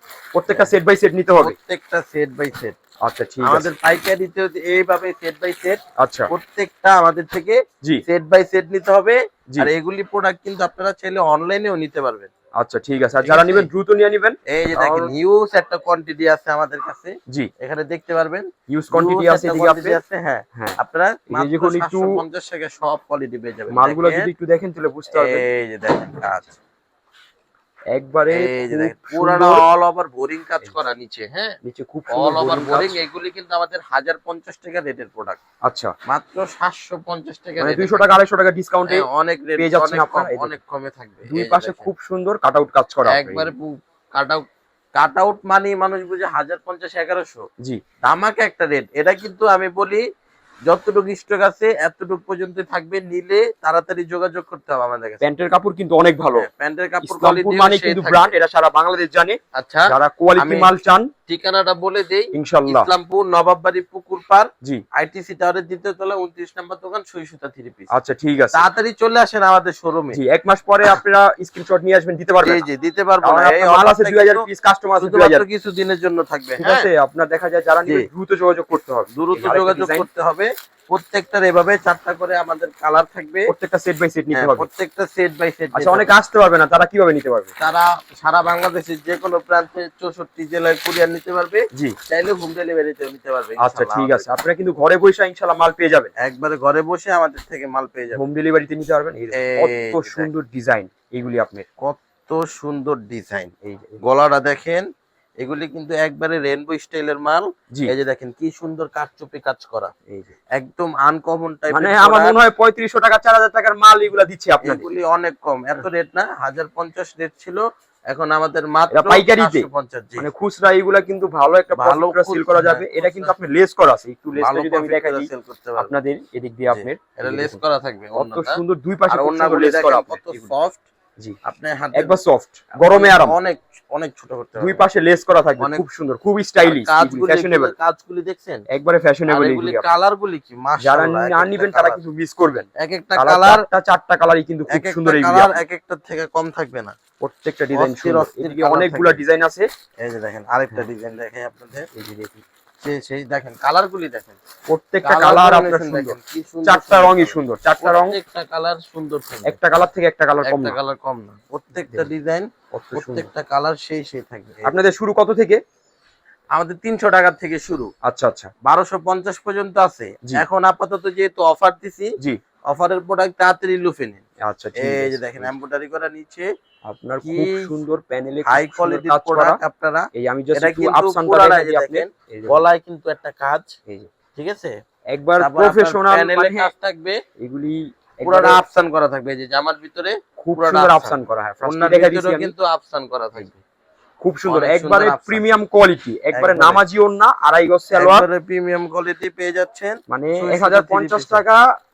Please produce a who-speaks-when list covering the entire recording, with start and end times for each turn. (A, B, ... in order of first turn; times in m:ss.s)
0:00.3-0:01.6 A
0:00.5-0:00.7 B
0:01.4-0:02.8 B
0:03.0-0:03.7 A
0:03.4-0:12.3 B
0:06.0-0:06.3 A
0:12.6-0:15.1 A
0:13.2-0:13.7 B
0:14.5-0:24.3 B
0:18.7-0:20.0 A
0:21.3-0:22.2 A
0:23.7-0:25.4 A
0:25.1-0:26.6 B
0:27.9-0:29.7 A
0:28.3-0:31.6 B
0:31.6-0:33.0 A
0:32.1-0:35.4 B
0:35.6-0:35.9 A
0:36.1-0:38.2 B
0:37.6-0:39.0 A
0:38.9-0:41.9 B
0:39.6-0:40.6 A
0:41.3-0:43.5 A
0:43.1-0:44.4 B
0:45.0-0:47.5 B
0:48.0-0:50.0 B
0:50.7-0:55.2 B
0:55.2-0:56.4 A
0:56.4-0:58.3 B
0:57.0-0:59.4 A
0:59.5-1:00.7 B
0:59.9-1:01.1 A
1:01.3-1:07.9 B
1:02.3-1:02.9 A
1:07.9-1:08.7 A
1:08.5-1:10.2 B
1:10.1-1:12.6 A
1:12.4-1:14.4 B
1:13.2-1:15.4 A
1:15.0-1:16.9 B
1:16.6-1:20.1 A
1:19.1-1:23.5 B
1:23.5-1:24.7 A
1:24.3-1:26.1 B
1:25.7-1:27.5 A
1:27.6-1:34.3 B
1:33.6-1:36.1 A
1:36.2-1:38.2 B
1:38.2-1:41.7 A
1:39.3-1:40.3 B
1:41.8-1:44.9 B
1:43.6-1:44.0 A
1:45.4-1:49.9 B
1:50.5-1:52.4 B
1:51.7-1:54.8 A
1:54.6-2:00.3 B
1:58.9-1:59.7 A
2:00.2-2:07.6 A
2:01.7-2:03.3 B
2:04.4-2:05.9 B
2:06.7-2:10.8 B
2:08.1-2:10.5 A
2:11.4-2:12.2 B
2:11.9-2:13.4 A
2:12.8-2:14.8 B
2:14.6-2:17.7 A
2:15.6-2:15.8 B
2:16.6-2:18.6 B
2:18.7-2:19.9 A
2:19.3-2:22.0 B
2:20.8-2:25.6 A
2:22.8-2:23.7 B
2:24.7-2:26.9 B
2:27.2-2:29.7 A
2:27.7-2:29.2 B
2:30.0-2:31.9 B
2:31.9-2:32.4 A
2:32.8-2:34.4 B
2:34.7-2:38.2 A
2:35.0-2:39.6 B
2:39.4-2:40.8 A
2:40.4-2:44.6 B
2:41.8-2:42.1 A
2:42.7-2:43.3 A
2:44.6-2:45.6 A
2:46.5-2:47.9 B
2:48.0-2:48.5 A
2:48.6-2:52.1 B
2:52.7-2:54.2 B
2:54.4-2:55.5 A
2:54.8-2:56.5 B
2:56.9-2:59.6 A
2:57.2-2:57.7 B
2:58.4-3:03.8 B
3:00.2-3:02.6 A
3:04.4-3:04.7 B
3:05.1-3:06.7 A
3:05.4-3:07.2 B
3:07.4-3:08.6 A
3:08.2-3:13.6 B
3:10.4-3:12.5 A
3:14.2-3:18.2 A
3:14.4-3:15.4 B
3:16.3-3:16.8 B
3:17.9-3:21.4 B
3:20.1-3:21.6 A